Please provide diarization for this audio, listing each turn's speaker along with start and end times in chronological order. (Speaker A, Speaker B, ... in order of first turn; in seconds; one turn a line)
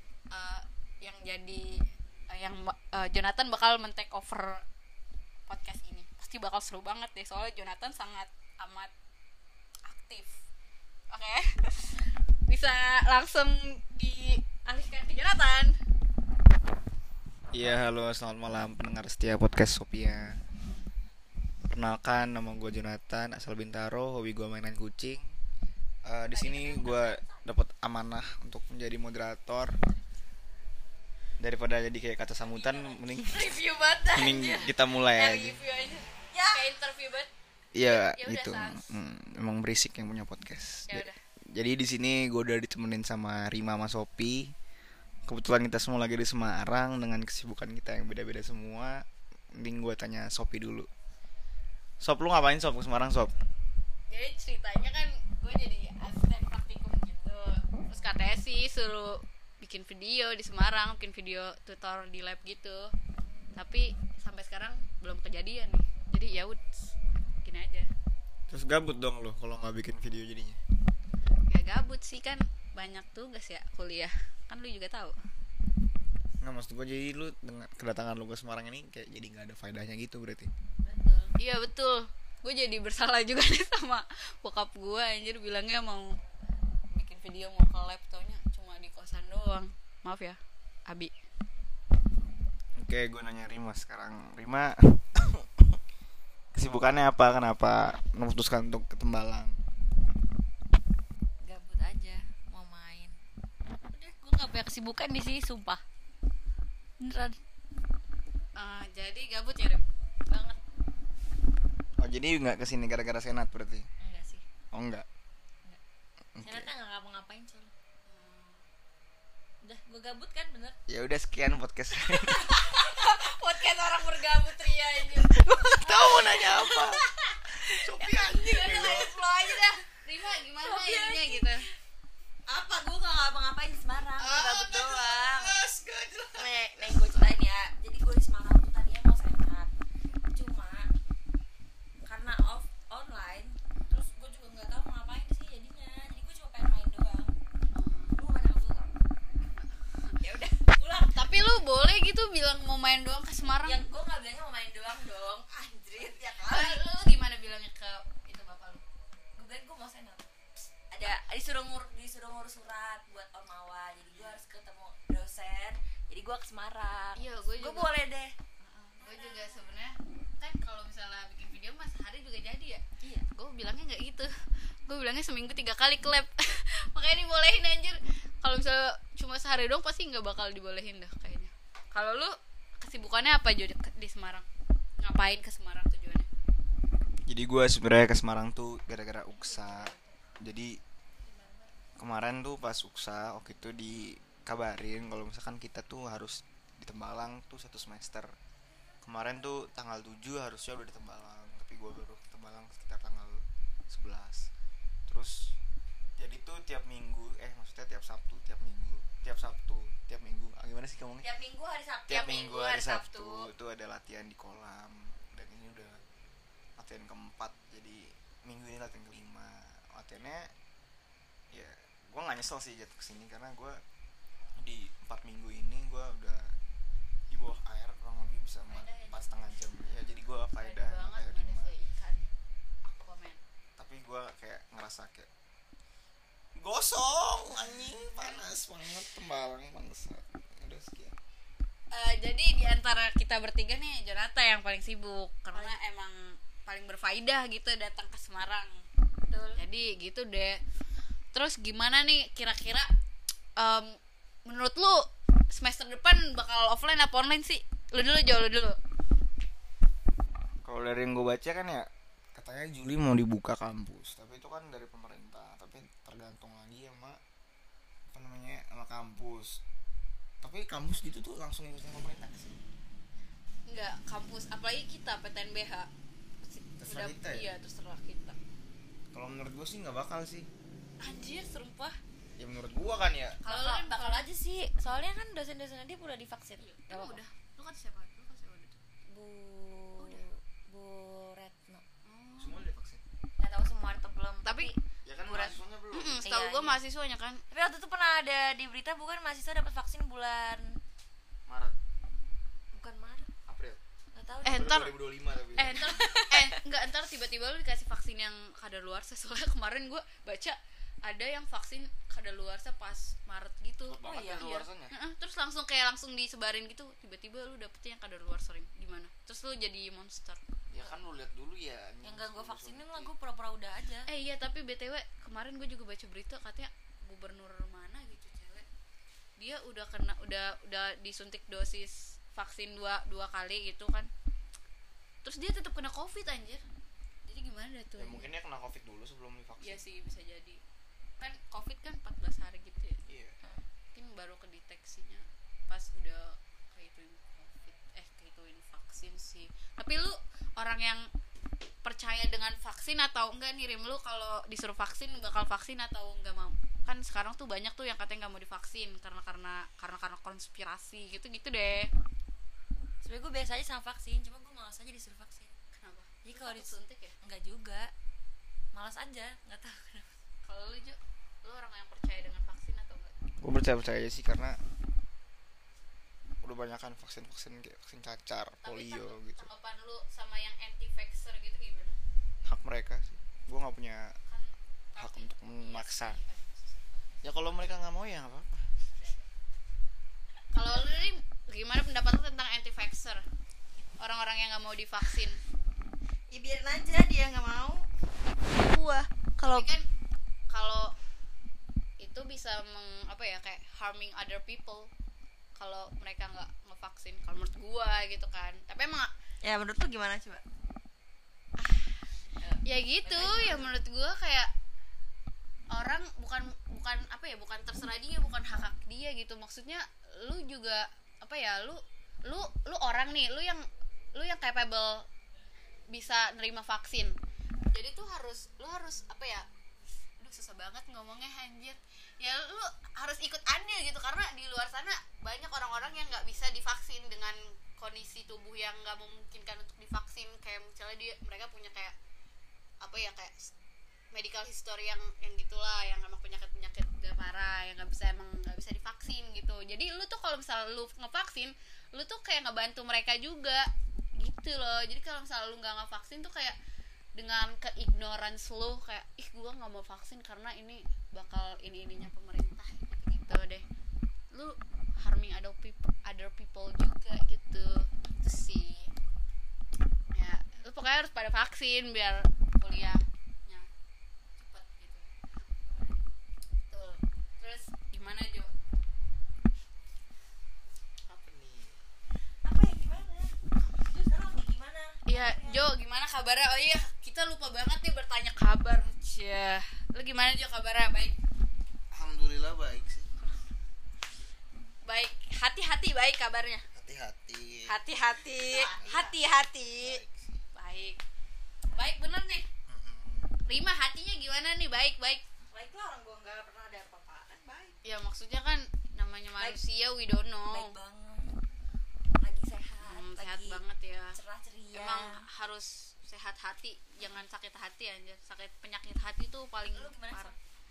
Speaker A: 0.3-4.6
Speaker A: 5.5-8.9
Speaker A: 9.9-10.4
Speaker A: 11.1-15.8
Speaker B: 17.5-20.4
Speaker B: 21.7-25.3
Speaker B: 26.1-29.8
Speaker C: 26.3-27.5
Speaker B: 31.4-33.6
Speaker C: 32.5-33.0
Speaker A: 33.3-37.3
Speaker B: 34.1-35.6
Speaker C: 34.4-34.7
Speaker C: 36.3-36.6
Speaker B: 37.7-44.5
Speaker A: 37.9-38.9
Speaker A: 40.9-41.2
Speaker B: 45.3-49.0
Speaker B: 49.5-50.9
Speaker B: 52.0-53.3
Speaker A: 54.1-62.9
Speaker A: 63.6-67.9
Speaker B: 68.5-70.6
Speaker A: 71.5-75.2
Speaker B: 76.4-80.5
Speaker C: 80.8-81.4
Speaker A: 81.4-86.1
Speaker A: 86.9-91.1
Speaker B: 92.8-95.8
Speaker B: 96.5-99.6
Speaker C: 101.4-103.2
Speaker C: 103.9-105.8
Speaker C: 107.0-107.4
Speaker A: 108.5-109.9
Speaker C: 110.3-110.6
Speaker B: 112.0-113.9
Speaker C: 114.0-114.4
Speaker B: 114.7-115.1
Speaker B: 116.4-116.7
Speaker C: 116.4-117.7
Speaker A: 118.1-118.6
Speaker C: 119.6-120.8
Speaker B: 120.9-122.5
Speaker A: 122.3-125.4
Speaker B: 125.3-127.0
Speaker C: 125.4-129.4
Speaker B: 127.6-129.2
Speaker A: 128.3-131.7
Speaker C: 130.6-131.7
Speaker C: 132.5-135.6
Speaker B: 134.2-137.2
Speaker C: 136.3-139.7
Speaker C: 140.3-140.9
Speaker C: 142.1-147.3
Speaker A: 147.7-148.2
Speaker C: 148.2-148.9
Speaker A: 149.4-150.2
Speaker C: 150.2-151.2
Speaker A: 151.1-153.8
Speaker C: 153.6-156.8
Speaker A: 156.5-158.8
Speaker C: 159.4-160.3
Speaker C: 160.9-168.3
Speaker A: 164.1-164.4
Speaker A: 167.2-167.9
Speaker A: 168.6-172.8
Speaker C: 169.0-169.7
Speaker A: 173.3-174.3
Speaker A: 174.9-184.5
Speaker A: 185.0-186.3
Speaker B: 187.3-190.8
Speaker A: 189.5-190.1
Speaker C: 191.2-191.8
Speaker B: 192.0-198.3
Speaker B: 199.0-204.5
Speaker B: 205.1-205.6
Speaker B: 206.2-211.2
Speaker C: 211.2-213.2
Speaker B: 212.1-216.0
Speaker A: 212.2-213.5
Speaker B: 216.8-220.5
Speaker B: 221.5-223.8
Speaker B: 224.6-226.5
Speaker B: 227.3-231.7
Speaker A: 228.7-229.3
Speaker A: 230.6-232.3
Speaker A: 232.8-233.4
Speaker B: 233.8-235.3
Speaker B: 236.6-241.2
Speaker A: 241.9-248.8
Speaker C: 245.5-245.8
Speaker C: 249.3-249.6
Speaker A: 249.6-250.6
Speaker A: 251.3-252.9
Speaker A: 253.6-255.0
Speaker A: 255.5-258.8
Speaker B: 260.6-267.2
Speaker B: 268.1-269.6
Speaker B: 270.4-272.6
Speaker A: 273.7-275.9
Speaker A: 276.4-278.4
Speaker B: 276.8-277.5
Speaker B: 279.1-280.5
Speaker C: 281.0-282.0
Speaker B: 282.4-283.4
Speaker C: 283.4-287.2
Speaker A: 283.5-284.3
Speaker A: 286.6-288.8
Speaker C: 289.1-291.8
Speaker A: 292.1-292.6
Speaker B: 292.4-293.0
Speaker C: 293.4-295.6
Speaker A: 294.4-294.7
Speaker B: 295.1-296.2
Speaker A: 295.9-297.4
Speaker C: 296.2-296.8
Speaker C: 297.5-300.8
Speaker B: 301.5-301.8
Speaker C: 302.7-303.3
Speaker B: 303.5-303.8
Speaker C: 304.1-304.7
Speaker A: 304.4-305.0
Speaker B: 304.4-306.0
Speaker A: 305.6-320.4
Speaker C: 305.8-306.6
Speaker B: 313.9-314.9
Speaker C: 314.0-314.5
Speaker B: 320.7-323.1
Speaker C: 322.0-324.1
Speaker A: 324.1-328.7
Speaker A: 329.4-334.1
Speaker A: 335.2-336.6
Speaker A: 337.3-338.3
Speaker B: 338.0-339.8
Speaker A: 339.6-340.6
Speaker A: 341.2-343.0
Speaker B: 343.1-343.3
Speaker A: 343.9-351.0
Speaker A: 351.8-361.9
Speaker C: 363.0-365.5
Speaker A: 365.7-367.1
Speaker C: 366.2-367.9
Speaker C: 368.7-370.1
Speaker A: 370.4-373.2
Speaker B: 373.4-374.6
Speaker B: 376.4-379.5
Speaker A: 378.6-382.0
Speaker B: 382.4-384.1
Speaker A: 384.3-387.7
Speaker B: 385.0-386.2
Speaker B: 387.2-388.7
Speaker A: 388.9-389.3
Speaker A: 390.5-393.2
Speaker A: 394.0-395.4
Speaker C: 396.3-397.9
Speaker C: 398.5-399.7
Speaker A: 399.4-399.9
Speaker A: 400.5-400.9
Speaker A: 402.0-404.9
Speaker A: 405.6-409.1
Speaker C: 409.4-410.4
Speaker A: 411.6-412.0
Speaker C: 412.4-413.7
Speaker A: 412.6-414.5
Speaker A: 415.7-423.6
Speaker A: 424.1-425.1
Speaker A: 425.9-427.1
Speaker A: 427.7-429.5
Speaker A: 430.2-441.9
Speaker A: 442.8-443.5
Speaker A: 444.1-456.6
Speaker A: 457.2-463.6
Speaker A: 464.3-468.9
Speaker A: 470.1-473.7
Speaker A: 474.4-475.1
Speaker C: 475.7-475.9
Speaker A: 476.7-478.5
Speaker B: 481.1-481.8
Speaker C: 482.4-485.6
Speaker A: 485.1-491.2
Speaker B: 491.9-493.1
Speaker A: 494.9-496.6
Speaker B: 496.8-497.8
Speaker A: 497.7-500.0
Speaker C: 498.2-499.1
Speaker B: 498.8-499.1
Speaker B: 499.8-500.4
Speaker A: 500.5-501.0
Speaker A: 501.7-502.5
Speaker B: 502.7-503.3
Speaker A: 503.5-505.2
Speaker C: 505.5-507.8
Speaker A: 507.8-510.7
Speaker C: 510.5-511.4
Speaker C: 512.2-513.6
Speaker A: 512.9-514.2
Speaker C: 514.1-515.2
Speaker A: 514.7-520.3
Speaker C: 519.7-520.4